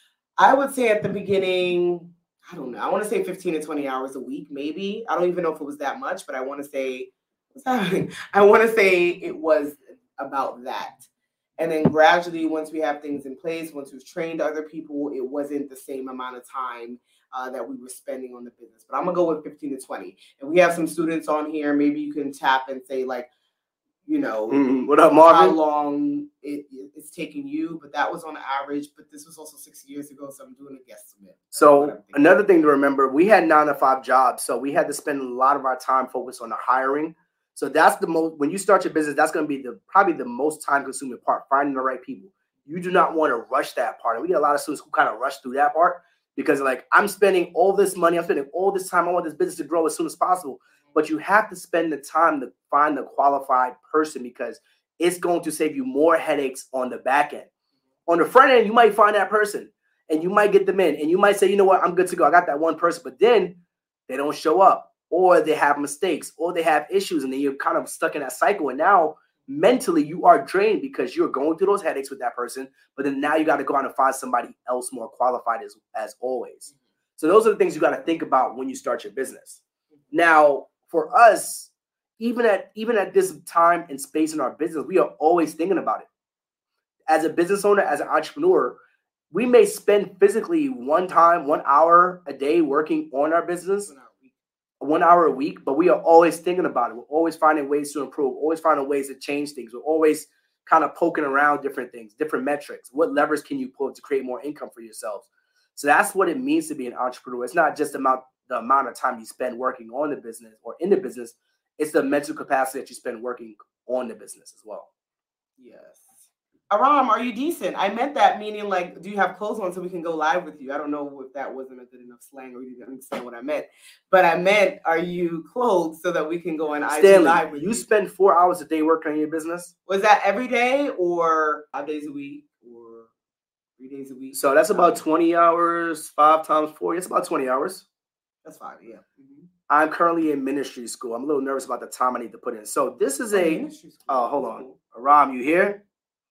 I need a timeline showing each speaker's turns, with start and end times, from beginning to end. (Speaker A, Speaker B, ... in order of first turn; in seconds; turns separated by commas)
Speaker A: 0.4-11.0, Speaker A: 11.6-23.3, Speaker A: 24.1-32.3, Speaker B: 24.5-25.6, Speaker B: 31.6-57.5, Speaker B: 58.1-63.6, Speaker B: 64.1-79.6, Speaker B: 80.1-86.1, Speaker B: 87.1-88.8, Speaker B: 89.3-93.9, Speaker A: 93.9-94.3, Speaker B: 94.8-114.9, Speaker A: 115.6-127.9, Speaker B: 126.9-129.7, Speaker A: 129.9-133.1, Speaker A: 133.8-135.0, Speaker B: 134.3-137.8, Speaker A: 138.4-139.5, Speaker B: 139.7-145.8, Speaker A: 143.3-144.8